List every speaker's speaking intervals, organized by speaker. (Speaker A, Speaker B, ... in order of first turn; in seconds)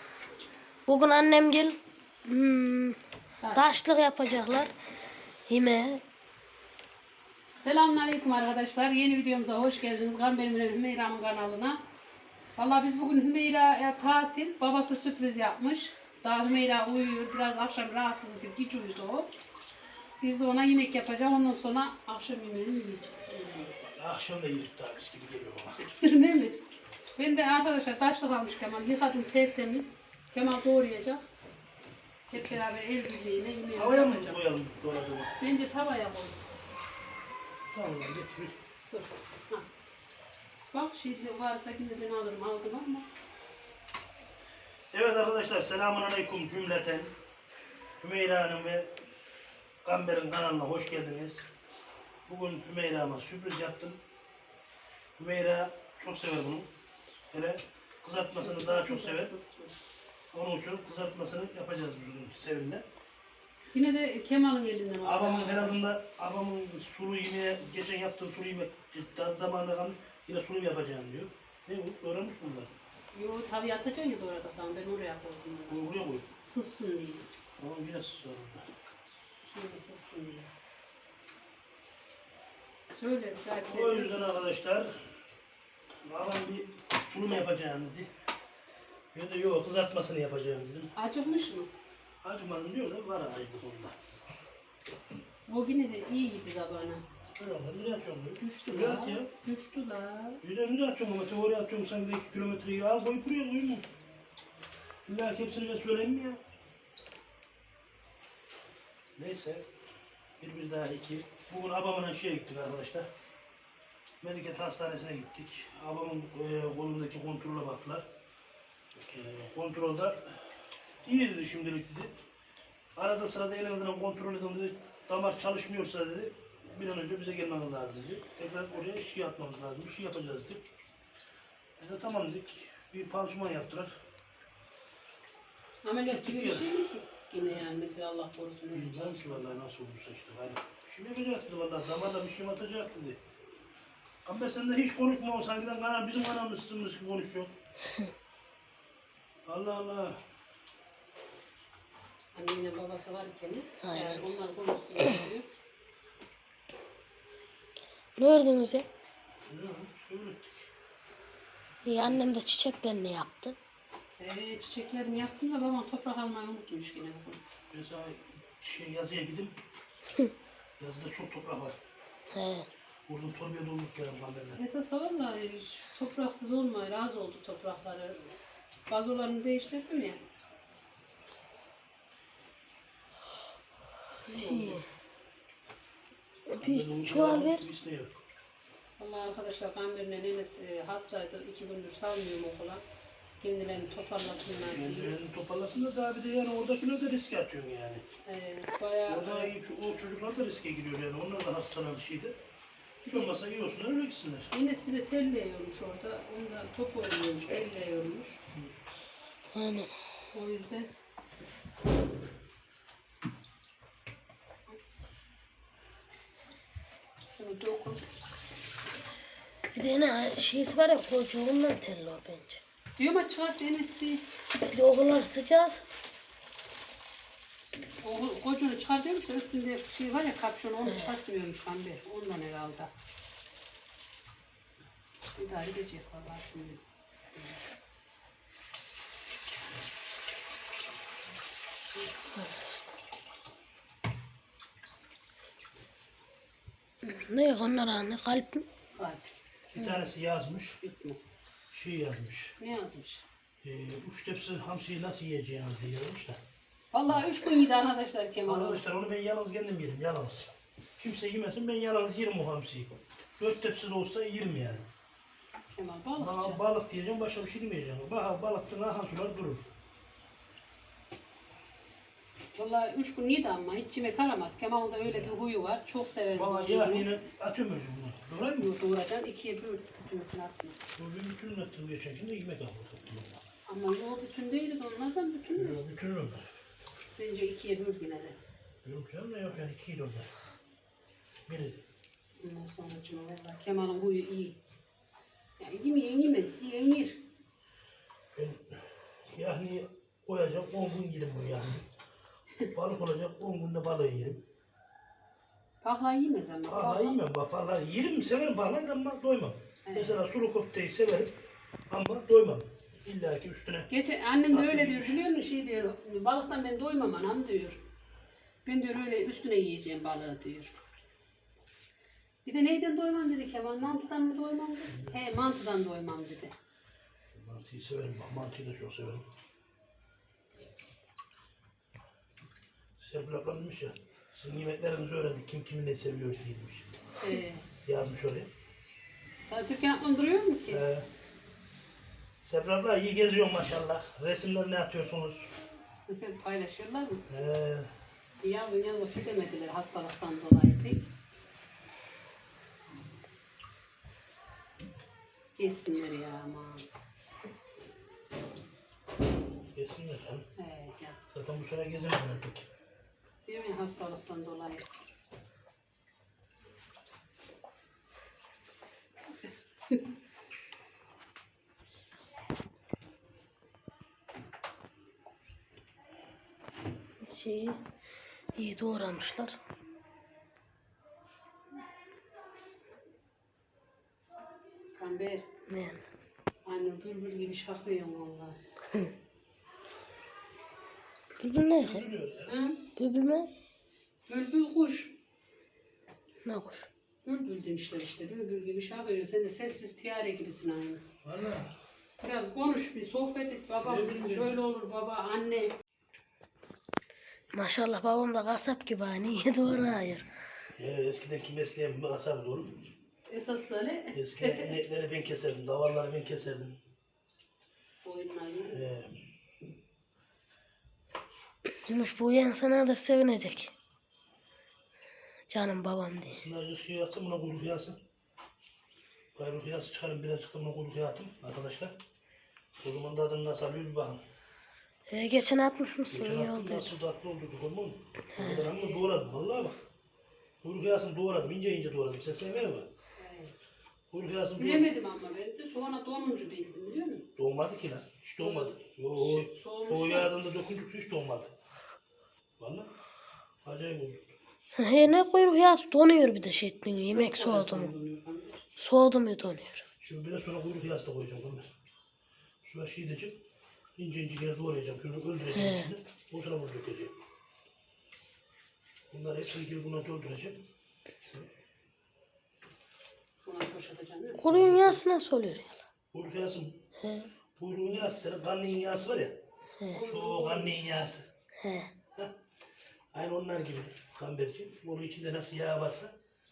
Speaker A: 0.9-3.0, 3.5-4.7, 5.5-6.0, 153.8-154.2, 158.2-158.9, 161.8-163.6, 172.3-172.7, 184.3-184.8, 186.5-187.7, 209.5-209.9, 219.7-222.6, 224.6-225.8, 230.9-231.1, 247.1-248.7, 377.2-377.8, 378.6-379.6, 385.7-386.0, 391.4-392.0, 393.0-393.5, 396.4-396.9, 407.5-410.3, 421.9-423.7, 425.5-426.4, 435.1-436.9, 438.4-438.6, 454.8-457.9, 458.8-459.8, 465.6-465.9, 474.4-475.8, 477.0-477.3, 481.6-481.9
Speaker B: 3.4-3.7, 7.6-11.8, 12.6-19.3, 20.2-23.7, 26.0-26.6, 27.2-31.2, 32.3-34.4, 35.4-36.4, 38.9-39.7, 40.7-43.1, 58.3-59.7, 63.7-65.8, 73.1-75.9, 76.4-77.3, 79.3-80.5, 82.9-84.2, 91.0-91.7, 95.5-97.0, 98.4-100.4, 135.8-139.6, 152.3-155.5, 164.2-167.4, 174.6-178.3, 178.9-180.2, 184.3-184.8, 189.0-192.8, 193.4-195.2, 198.3-199.5, 203.0-203.3, 204.5-208.4, 210.3-210.9, 217.3-218.0, 223.0-224.2, 228.0-232.9, 235.4-236.8, 248.9-250.1, 250.8-251.2, 252.6-253.2, 256.9-258.8, 265.8-266.6, 272.6-277.1, 278.6-280.8, 283.7-285.8, 287.2-288.4, 292.4-294.6, 295.6-297.2, 305.8-307.2, 309.9-310.2, 313.9-317.8, 318.7-320.8, 322.4-326.5, 337.2-337.7, 339.5-340.8, 346.1-347.2, 348.4-351.1, 355.6-356.9, 360.6-361.3, 363.4-364.9, 384.9-385.5, 386.7-388.6, 392.5-392.8, 394.3-395.1, 397.2-401.0, 402.2-405.7, 413.3-414.7, 418.0-418.9, 443.2-443.5, 444.6-447.3, 448.4-450.3, 457.1-458.6, 473.4-474.4, 479.9-480.8
Speaker C: 23.6-25.8, 33.8-35.3, 37.7-38.6, 44.9-47.1, 48.0-48.9, 49.9-51.5, 52.3-54.0, 55.2-56.7, 57.3-59.3, 60.3-62.9, 65.0-72.8, 75.7-76.3, 77.6-78.7, 83.7-85.1, 86.0-88.1, 89.1-90.9, 92.2-94.0, 97.4-99.3, 100.4-103.9, 105.1-106.4, 109.2-109.7, 110.4-113.1, 114.2-118.1, 119.0-120.5, 121.0-122.1, 123.0-130.6, 131.8-133.9, 136.1-136.7, 138.7-143.2, 144.3-147.5, 149.5-150.2, 159.5-160.7, 167.7-169.6, 170.8-171.8, 173.1-174.6, 186.6-188.2, 194.6-198.1, 199.1-202.4, 203.1-204.5, 249.7-250.8, 251.7-252.6, 253.6-256.4, 258.5-264.9, 266.2-269.6, 275.1-275.3, 276.4-278.7, 281.0-283.4, 285.6-286.5, 288.8-290.3, 291.5-291.8, 298.4-301.9, 302.7-304.4, 306.7-311.3, 311.9-313.9, 314.5-315.2, 324.9-325.2, 327.3-329.2, 333.0-337.0, 337.9-338.5, 340.7-341.1, 342.4-345.5, 347.3-347.9, 359.8-360.5, 361.3-362.7, 391.8-392.5, 401.2-401.7, 403.8-404.6, 410.8-412.8, 414.1-416.8, 418.6-419.1, 426.3-428.0, 429.4-432.0, 432.8-434.2, 436.1-439.8, 440.6-442.9, 444.1-444.9, 447.4-451.5, 452.6-452.9, 453.6-454.4, 460.0-461.7, 462.6-463.4, 464.0-467.1, 469.1-470.6, 471.2-471.5, 474.5-475.0, 476.1-476.8, 477.6-479.4, 479.9-481.3, 483.1-486.1